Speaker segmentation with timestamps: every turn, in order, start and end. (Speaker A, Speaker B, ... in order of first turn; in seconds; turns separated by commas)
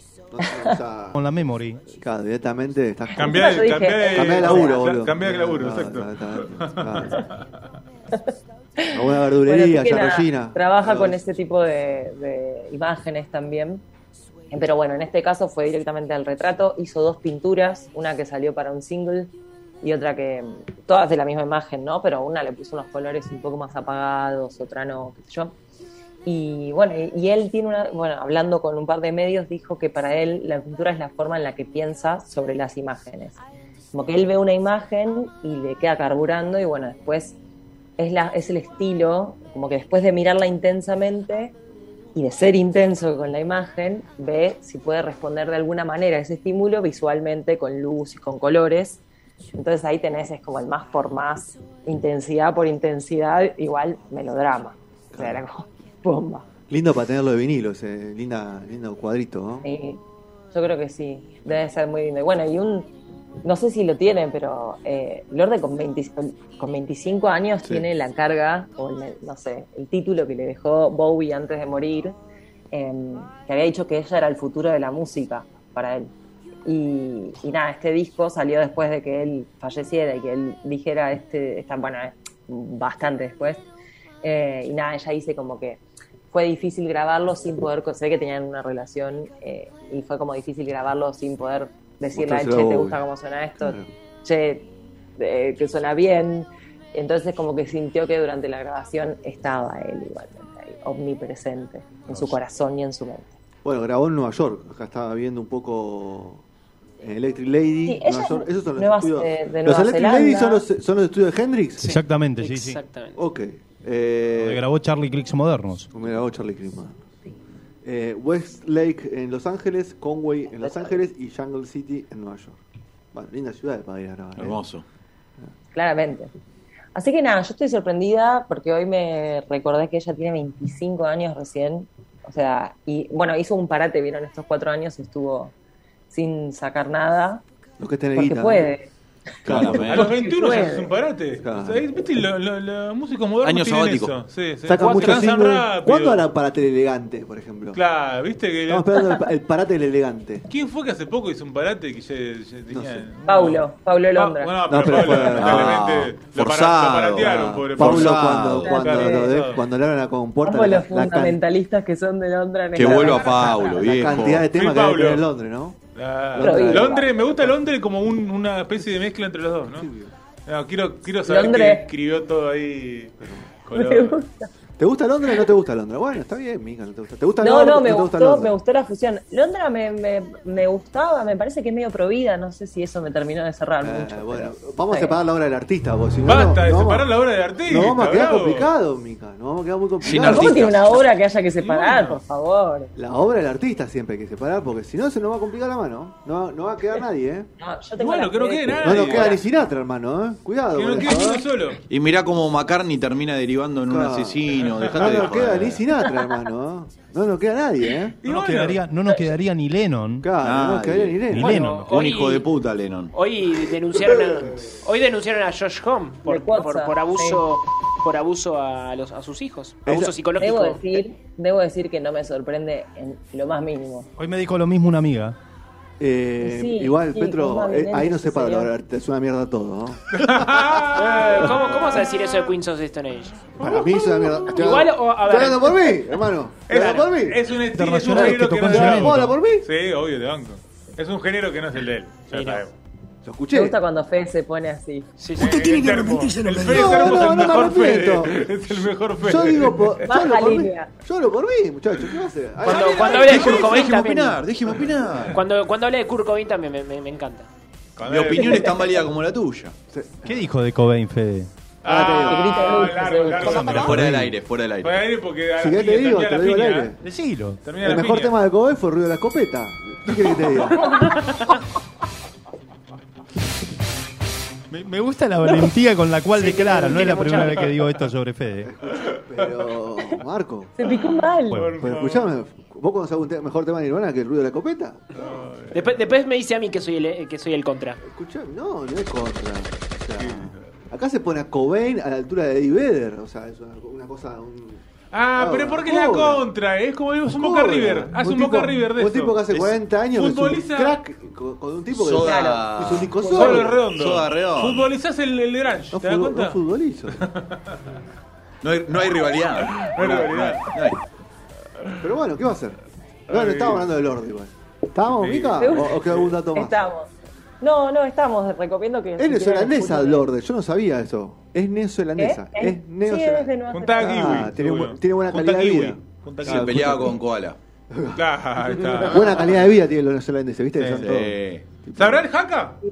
Speaker A: 0.3-1.2, Speaker B: 0.4-0.8, Speaker C: 1.1-1.9, Speaker A: 1.9-7.2, Speaker B: 3.1-4.8, Speaker D: 3.1-7.3, Speaker B: 8.1-13.8, Speaker A: 8.9-11.2, Speaker B: 14.5-25.5, Speaker B: 26.2-33.4, Speaker B: 33.9-37.4, Speaker B: 38.0-41.5, Speaker B: 42.1-49.0, Speaker B: 49.5-56.5, Speaker A: 55.1-55.4, Speaker A: 56.7-59.6, Speaker B: 59.6-60.0, Speaker B: 60.5-62.9, Speaker B: 63.4-72.2, Speaker B: 72.7-76.1, Speaker B: 76.7-83.6, Speaker B: 84.2-85.8, Speaker B: 86.3-94.7, Speaker A: 92.1-93.0, Speaker A: 93.6-93.9, Speaker B: 95.2-103.3, Speaker A: 103.6-106.4, Speaker A: 107.0-111.9, Speaker B: 107.8-110.7, Speaker E: 111.8-113.2, Speaker C: 111.8-112.8, Speaker A: 113.2-114.6, Speaker C: 114.4-115.9, Speaker A: 115.9-117.0, Speaker A: 117.8-122.6, Speaker B: 120.6-121.0, Speaker A: 123.1-124.6, Speaker F: 124.4-124.8, Speaker B: 125.7-126.3, Speaker B: 126.9-135.5, Speaker B: 136.1-137.4, Speaker A: 137.8-138.7, Speaker B: 138.2-138.9, Speaker F: 139.4-140.1, Speaker B: 139.4-140.9, Speaker A: 139.5-139.8, Speaker D: 139.6-146.3, Speaker A: 141.4-141.9, Speaker F: 143.4-144.1, Speaker A: 144.7-147.8, Speaker D: 147.7-148.9, Speaker A: 148.7-150.5, Speaker D: 150.5-159.6, Speaker A: 152.7-153.1, Speaker B: 153.3-154.6, Speaker A: 154.7-155.8, Speaker F: 154.9-158.7, Speaker A: 157.2-161.4, Speaker B: 158.6-159.3, Speaker B: 160.4-163.7, Speaker F: 162.7-164.5, Speaker A: 162.8-165.8, Speaker D: 164.4-165.2, Speaker D: 165.9-169.9, Speaker A: 166.3-167.5, Speaker B: 166.4-167.2, Speaker A: 169.7-170.1, Speaker D: 170.5-173.2, Speaker B: 171.3-171.9, Speaker A: 173.2-173.5, Speaker D: 173.7-174.2, Speaker B: 173.7-174.3, Speaker A: 174.8-178.6, Speaker B: 177.4-185.2, Speaker A: 183.8-187.1, Speaker D: 186.2-188.7, Speaker A: 187.7-190.7, Speaker F: 190.0-191.0, Speaker B: 190.1-192.9, Speaker D: 191.6-192.2, Speaker A: 192.9-197.5, Speaker B: 197.6-199.4, Speaker D: 198.0-199.3, Speaker A: 198.8-201.5, Speaker D: 200.7-201.8, Speaker F: 201.9-205.8, Speaker A: 203.9-208.2, Speaker D: 204.7-205.3, Speaker D: 208.2-208.8, Speaker C: 208.2-210.3, Speaker A: 210.2-211.6, Speaker F: 210.4-213.1, Speaker C: 211.3-211.9, Speaker E: 211.4-212.5, Speaker E: 213.1-221.0, Speaker B: 216.2-217.4, Speaker A: 219.8-220.2, Speaker B: 220.4-224.1, Speaker C: 224.2-225.3, Speaker A: 226.0-230.8, Speaker B: 226.4-228.7, Speaker D: 230.1-231.8, Speaker E: 230.9-233.5, Speaker D: 233.6-234.5, Speaker A: 233.6-237.4, Speaker E: 234.5-236.0, Speaker D: 236.7-242.7, Speaker E: 236.7-237.0, Speaker C: 237.7-239.4, Speaker A: 238.1-239.7, Speaker E: 242.3-242.7, Speaker A: 243.2-243.8, Speaker B: 243.5-245.1, Speaker E: 245.2-246.5, Speaker D: 245.4-250.0, Speaker A: 246.5-248.4, Speaker A: 249.2-253.7, Speaker B: 250.0-250.9, Speaker E: 252.6-254.4, Speaker F: 252.7-255.4, Speaker E: 255.3-257.5, Speaker D: 258.0-258.8, Speaker F: 258.1-259.7, Speaker B: 258.4-258.8, Speaker A: 259.9-260.4, Speaker C: 260.2-261.5, Speaker D: 261.8-264.0, Speaker A: 261.8-262.5, Speaker B: 262.1-263.8, Speaker C: 263.5-264.3, Speaker F: 263.7-265.1, Speaker D: 264.8-266.9, Speaker A: 265.6-267.0, Speaker C: 267.0-267.6, Speaker D: 267.6-268.4, Speaker A: 267.8-270.9, Speaker C: 274.7-278.7, Speaker E: 276.3-277.7, Speaker A: 278.6-280.7, Speaker B: 280.8-281.6, Speaker C: 281.5-281.8, Speaker D: 281.5-282.3, Speaker A: 281.8-285.2, Speaker D: 285.2-286.0, Speaker E: 285.7-288.0, Speaker A: 288.0-294.8, Speaker D: 290.2-290.5, Speaker D: 295.1-299.5, Speaker A: 295.4-296.4, Speaker A: 297.3-303.8, Speaker D: 300.1-301.0, Speaker F: 301.9-303.2, Speaker B: 302.2-303.7, Speaker D: 303.3-306.6, Speaker F: 303.9-304.9, Speaker A: 305.9-307.2, Speaker D: 307.1-307.8, Speaker F: 308.6-311.0, Speaker D: 309.7-310.8, Speaker A: 312.0-312.8, Speaker D: 313.3-313.9, Speaker A: 313.3-316.7, Speaker D: 315.1-316.3, Speaker B: 315.6-320.3, Speaker A: 319.2-327.2, Speaker B: 322.2-324.4, Speaker D: 323.7-327.0, Speaker F: 326.4-327.6, Speaker A: 327.9-328.2, Speaker D: 328.1-329.6, Speaker A: 329.0-332.2, Speaker D: 330.8-331.1, Speaker F: 330.9-331.7, Speaker D: 331.9-332.8